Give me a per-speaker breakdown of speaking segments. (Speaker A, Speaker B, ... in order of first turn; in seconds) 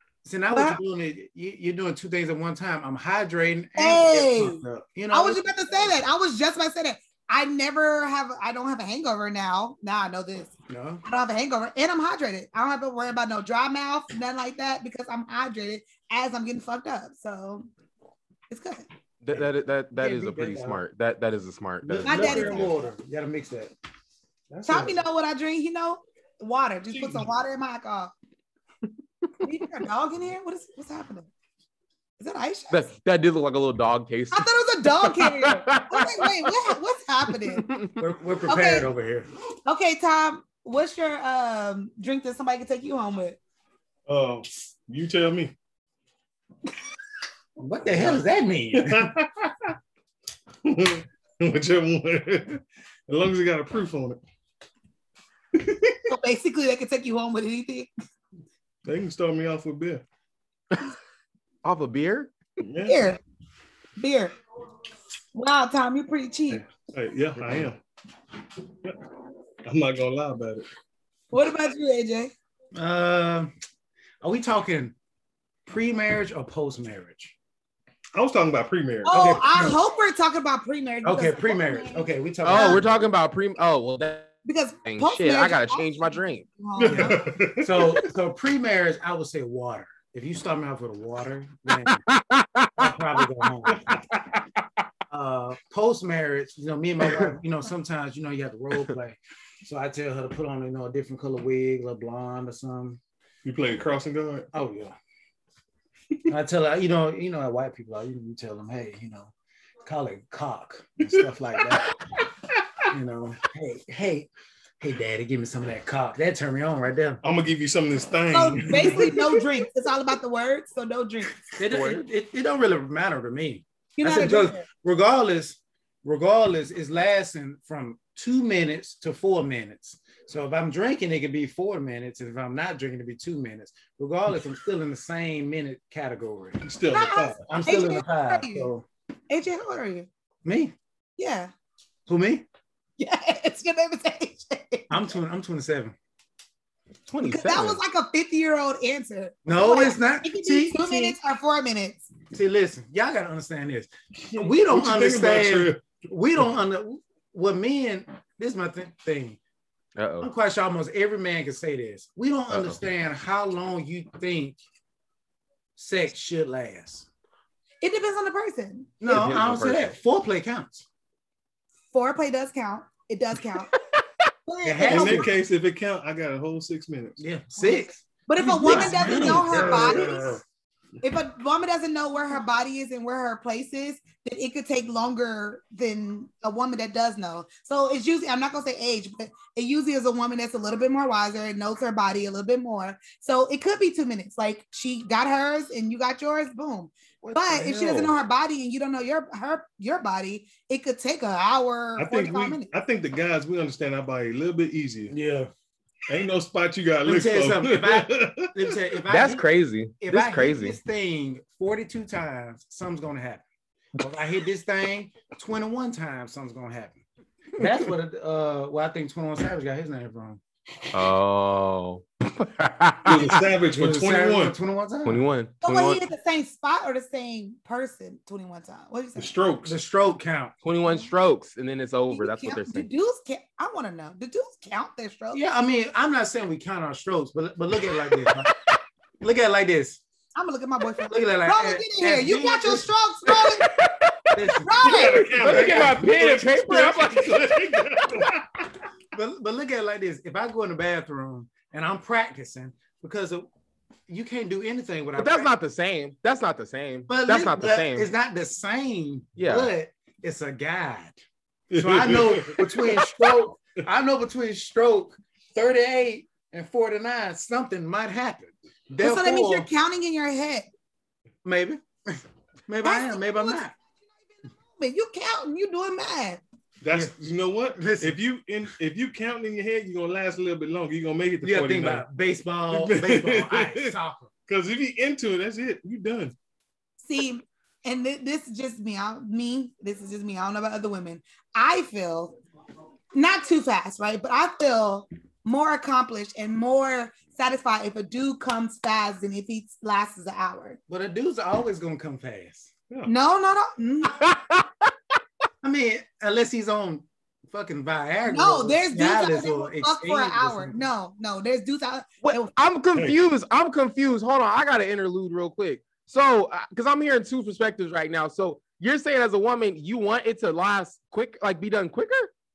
Speaker A: 0.2-5.9, 10.7-11.0, 19.3-20.8, 21.8-23.7, 24.5-24.9, 38.0-39.3, 47.6-49.1, 72.8-73.5, 74.2-75.0, 75.7-77.3, 79.1-79.8, 81.0-82.9, 86.8-92.0, 92.8-94.0, 95.1-103.0, 104.5-105.0, 106.3-109.3, 109.8-111.9, 112.9-117.2, 118.7-119.2, 121.6-136.7, 137.4-138.9, 140.4-140.8, 142.1-142.4, 144.9-145.9, 149.5-151.2, 152.3-159.4, 160.2-164.6, 165.8-167.1, 169.0-170.8, 174.6-175.3, 177.2-180.4, 197.2-198.1, 205.1-205.5, 207.0-209.5, 210.0-213.4, 214.0-217.0, 217.6-220.4, 223.1-225.3, 229.7-230.6, 235.3-238.5, 239.2-240.0, 241.1-242.9, 244.3-246.1, 249.1-253.5, 254.1-255.5, 257.1-261.2, 261.7-269.7, 271.4-273.7, 276.9-278.2, 281.4-284.3, 300.9-302.7, 305.6-310.9
Speaker B: 0.5-0.8, 3.8-10.5, 11.1-17.7, 18.5-18.9, 22.0-22.7, 24.7-28.1, 29.4-31.3, 32.2-32.9, 34.3-37.7, 38.5-38.9, 39.7-43.4, 56.1-57.9, 62.9-63.2, 64.0-64.3, 65.3-66.6, 71.3-72.3, 79.0-82.8, 84.5-87.2, 118.3-121.4, 124.0-124.7, 136.9-138.7, 139.3-140.1, 141.2-141.5, 143.0-145.0, 147.2-152.1, 167.8-169.0, 171.9-173.7, 174.5-175.3, 177.6-180.3, 181.0-202.7, 225.6-229.3, 232.1-235.4, 240.4-243.7, 244.6-245.3, 269.0-270.7, 272.8-273.6, 274.2-276.4, 287.0-292.4, 293.1-300.8, 303.1-304.2, 308.3-312.5
Speaker C: 19.2-22.7, 32.7-36.7, 37.5-38.0, 61.6-62.3, 82.4-86.5, 91.9-94.4, 121.7-122.0, 147.1-147.8, 160.0-160.3, 162.5-162.8, 169.1-169.9, 209.1-210.8, 220.9-223.4, 225.1-226.0, 230.6-232.9, 243.4-244.4, 245.0-247.4, 255.2-258.1, 259.4-259.7, 304.1-304.9, 312.2-322.3
Speaker D: 24.5-24.9, 26.9-27.2, 44.1-45.5, 47.9-49.8, 50.6-54.2, 55.5-56.0, 58.9-60.0, 62.6-63.0, 66.5-67.8, 69.7-70.7, 78.2-79.2, 86.8-88.1, 103.4-104.5, 111.1-112.8, 117.2-119.4, 136.6-137.4, 154.3-155.9, 174.9-177.2, 178.6-180.4, 202.0-205.1, 206.1-208.8, 223.1-224.6, 229.2-229.8, 244.8-248.7, 261.7-263.4, 276.8-282.1, 282.7-283.9, 284.5-286.4